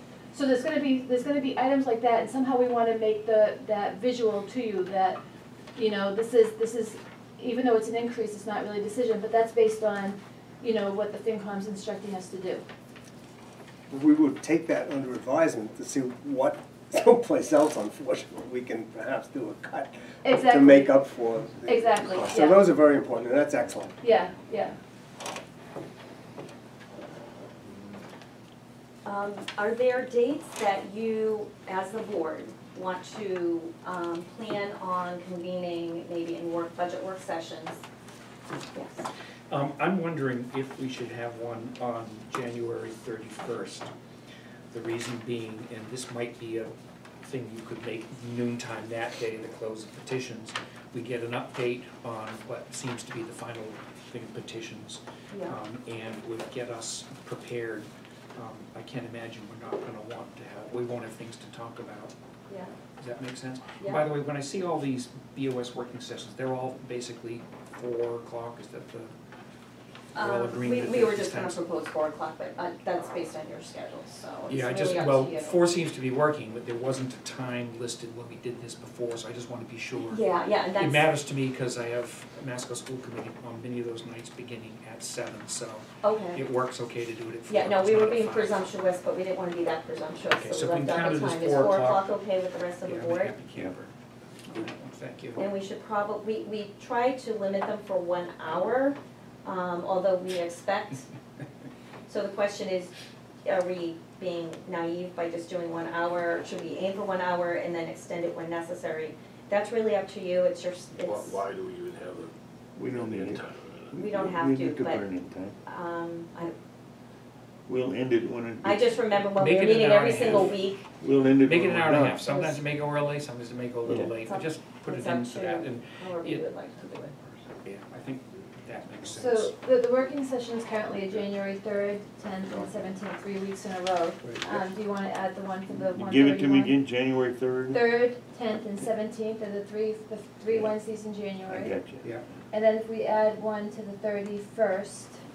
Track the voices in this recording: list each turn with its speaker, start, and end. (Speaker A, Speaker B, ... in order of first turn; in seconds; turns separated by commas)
Speaker A: 0.3-5.2, Speaker A: 5.7-12.6, Speaker B: 13.9-23.9, Speaker A: 20.2-20.9, Speaker A: 21.6-22.6, Speaker A: 24.0-24.8, Speaker C: 29.1-37.8, Speaker C: 38.7-39.1, Speaker D: 39.5-43.9, Speaker D: 44.7-62.1, Speaker C: 55.3-55.5, Speaker D: 63.0-69.1, Speaker C: 63.8-64.0, Speaker D: 70.1-71.6, Speaker C: 70.1-75.6, Speaker D: 74.5-80.2, Speaker C: 80.1-81.1, Speaker D: 80.7-88.7, Speaker C: 86.0-86.4, Speaker C: 87.5-93.3, Speaker D: 90.2-92.1, Speaker D: 92.8-93.9, Speaker D: 94.5-95.5, Speaker C: 95.3-101.1, Speaker C: 102.1-102.9, Speaker C: 103.4-111.4, Speaker E: 111.0-112.3, Speaker F: 112.8-115.5, Speaker E: 112.9-114.1, Speaker C: 113.9-115.0, Speaker C: 115.6-116.5, Speaker F: 117.7-118.9, Speaker C: 118.6-120.9, Speaker D: 119.3-120.7, Speaker F: 121.0-122.0, Speaker D: 121.4-129.5, Speaker B: 121.9-122.2, Speaker C: 122.2-122.6, Speaker F: 123.8-124.1, Speaker C: 124.2-127.1, Speaker A: 129.1-136.7, Speaker F: 135.7-137.9, Speaker A: 137.7-141.8, Speaker F: 141.5-142.0, Speaker A: 142.5-145.2